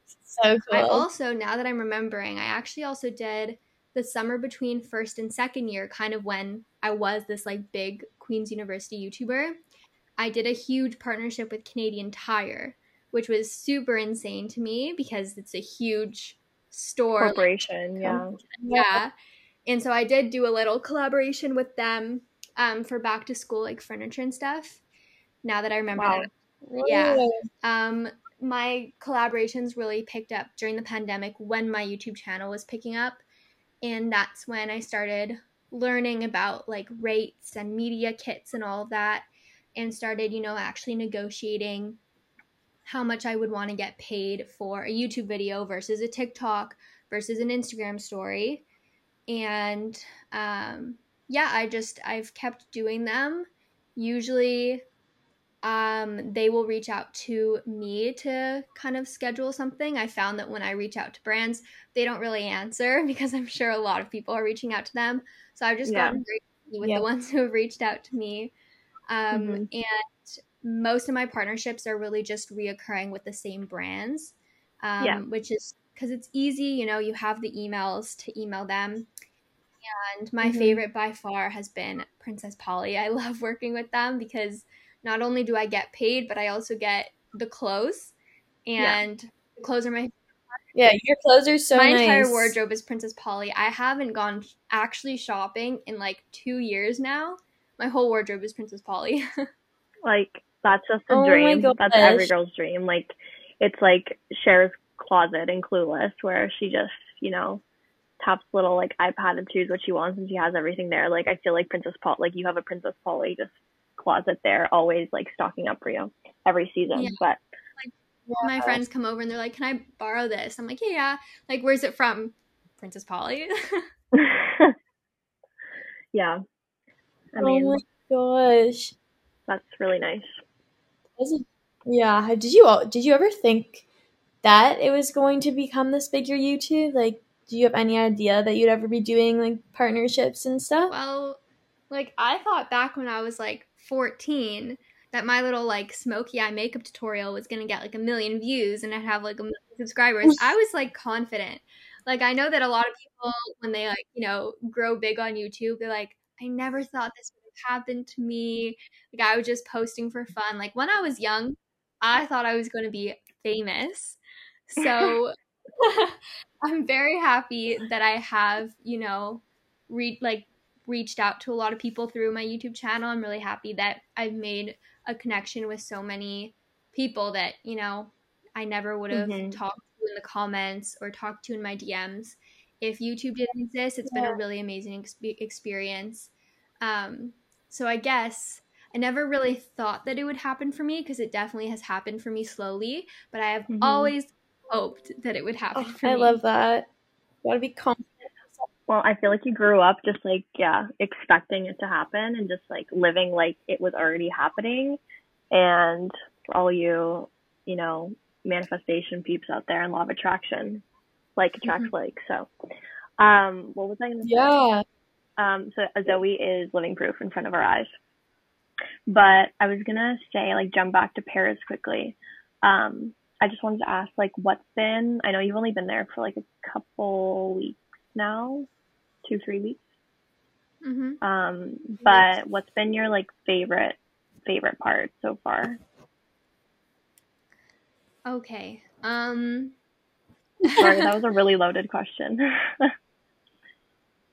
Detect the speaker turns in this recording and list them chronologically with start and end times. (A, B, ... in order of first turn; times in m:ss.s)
0:00.2-0:01.0 A
0:00.7-0:09.6 B
0:10.2-0:19.1 B
0:17.2-0:18.4 C
0:18.6-0:19.0 A
0:19.6-0:24.8 B
0:25.4-0:33.2 B
0:26.0-0:26.3 C
0:26.8-0:27.4 A
0:33.8-0:42.0 B
0:42.8-0:48.6 B
0:49.3-0:54.8 B
0:55.6-1:08.5 B
1:05.8-1:06.2 C
1:09.1-1:19.1 B
1:09.3-1:09.6 C
1:19.8-1:28.1 B
1:20.4-1:20.8 A
1:28.6-1:30.6 B
1:30.7-1:32.6 A
1:31.7-1:39.5 B
1:40.0-1:47.6 C
1:41.1-1:42.3 A
1:48.2-1:57.4 C
1:56.9-1:57.2 B
1:57.8-2:03.8 B
1:58.3-1:58.8 A
2:04.1-2:04.7 C
2:06.1-2:06.4 C
2:07.3-2:07.8 C
2:07.4-2:08.9 A
2:09.5-2:10.4 C
2:11.2-2:13.8 A
2:14.4-2:20.9 A
2:20.9-3:06.3 B
2:59.1-2:59.6 C
3:06.8-3:16.4 B
3:13.7-3:14.1 C
3:15.7-3:16.9 A
3:17.4-3:18.6 A
3:18.9-3:25.0 C
3:25.5-3:30.8 C
3:31.4-3:32.5 C
3:33.2-3:34.6 C
3:34.2-3:34.8 A
3:35.4-3:37.9 C
3:39.1-3:48.7 C
3:49.2-3:49.8 C
3:50.8-3:51.2 B
3:51.2-3:55.8 C
3:52.0-3:52.3 B
3:58.2-3:59.8 B
4:00.6-4:01.0 B
4:00.8-4:02.9 C